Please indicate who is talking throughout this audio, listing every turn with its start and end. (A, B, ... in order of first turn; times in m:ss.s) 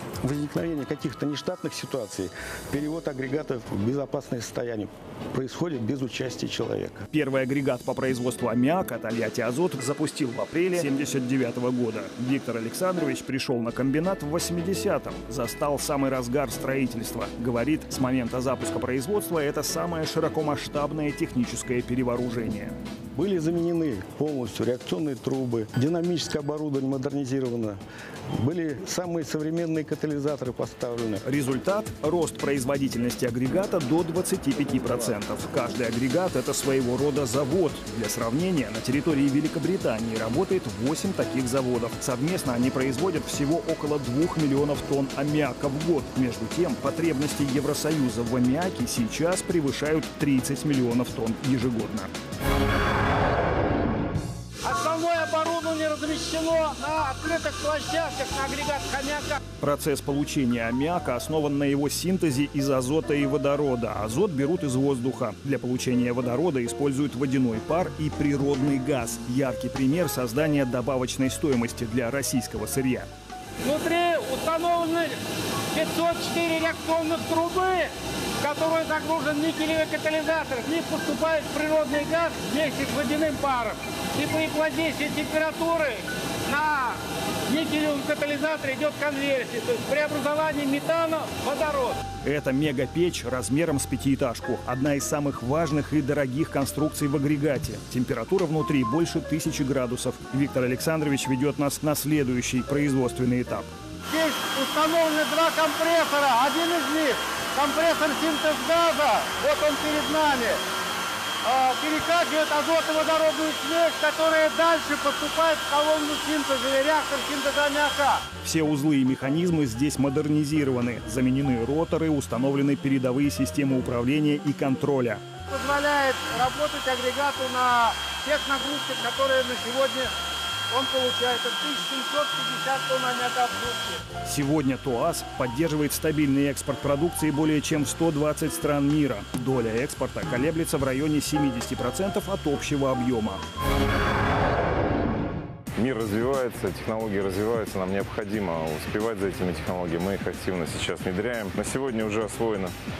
0:00.2-0:07.0 A
0:07.1-0:22.8 B
0:23.2-0:27.8 A
0:28.4-0:31.2 A
0:31.2-0:52.1 B
0:54.6-0:59.4 C
0:59.6-1:13.1 B
1:13.6-1:15.2 C
1:15.7-1:32.0 C
1:32.2-1:43.7 B
1:44.1-1:50.6 C
1:51.4-1:58.2 C
1:58.4-2:05.2 B
2:05.5-2:10.1 C
2:10.7-2:14.0 C
2:14.2-2:23.4 B
2:25.8-2:32.7 D